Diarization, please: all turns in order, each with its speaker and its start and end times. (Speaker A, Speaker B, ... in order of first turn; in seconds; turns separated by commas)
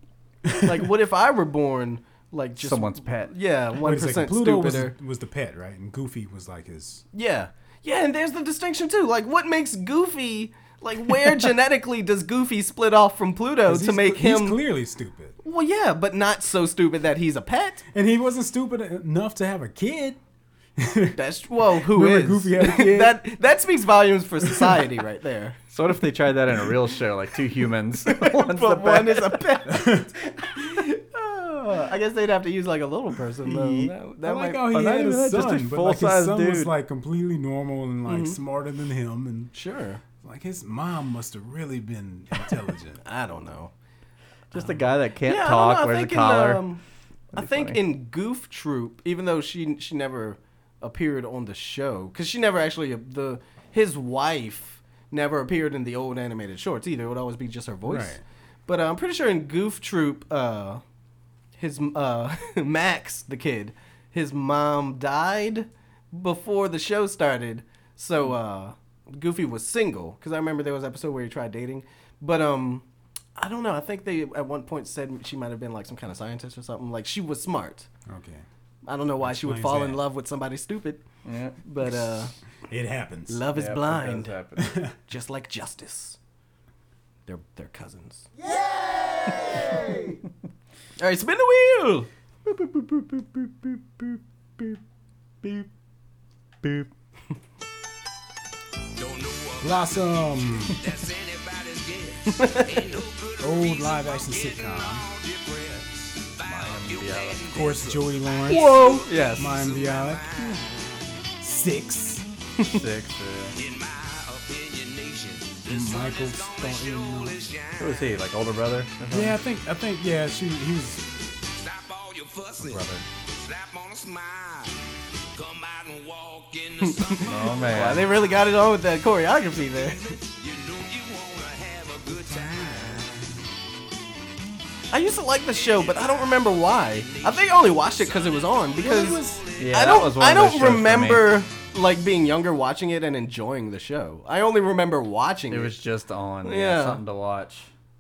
Speaker A: 0.5-0.8, Speaker B: 0.6-5.0, Speaker C: 2.6-3.3, Speaker A: 3.8-7.0, Speaker B: 7.1-14.6, Speaker A: 13.7-15.4, Speaker B: 15.4-17.8, Speaker A: 17.9-20.2, Speaker A: 20.8-23.2, Speaker B: 21.2-25.6, Speaker C: 25.7-29.6, Speaker B: 28.1-30.0, Speaker A: 29.7-30.1, Speaker B: 30.6-34.8, Speaker A: 33.7-39.5, Speaker C: 34.7-36.7, Speaker B: 38.1-38.4, Speaker B: 39.5-40.0, Speaker A: 40.2-43.0, Speaker B: 43.0-43.7, Speaker C: 44.5-46.7, Speaker B: 45.2-46.8, Speaker C: 47.3-47.8, Speaker B: 47.3-60.8, Speaker A: 57.9-58.2, Speaker B: 61.6-72.8, Speaker B: 73.4-77.9, Speaker A: 78.1-78.5, Speaker B: 78.9-81.0, Speaker A: 79.2-80.0, Speaker C: 81.2-81.6, Speaker B: 81.6-82.3, Speaker A: 82.7-83.5, Speaker B: 83.3-84.3, Speaker C: 83.5-84.8, Speaker A: 84.6-84.9, Speaker B: 85.1-86.2, Speaker B: 87.3-88.3, Speaker B: 91.0-92.1, Speaker C: 92.5-94.8, Speaker C: 96.6-96.9, Speaker D: 99.0-111.0, Speaker A: 99.6-100.8, Speaker B: 102.4-102.8, Speaker A: 103.4-105.0, Speaker C: 106.5-107.5, Speaker A: 107.5-108.7, Speaker B: 108.5-109.5, Speaker A: 109.4-110.3, Speaker A: 111.4-112.3, Speaker C: 112.7-113.6, Speaker D: 113.5-118.3, Speaker A: 115.7-117.4, Speaker C: 117.8-119.4, Speaker A: 119.1-121.1, Speaker D: 121.5-124.8, Speaker D: 125.3-128.5, Speaker B: 126.8-130.0, Speaker C: 127.2-128.1, Speaker D: 129.5-133.3, Speaker B: 134.9-145.8, Speaker D: 135.5-140.0, Speaker A: 138.8-139.4, Speaker C: 139.6-141.4, Speaker C: 145.5-147.7, Speaker B: 146.4-147.0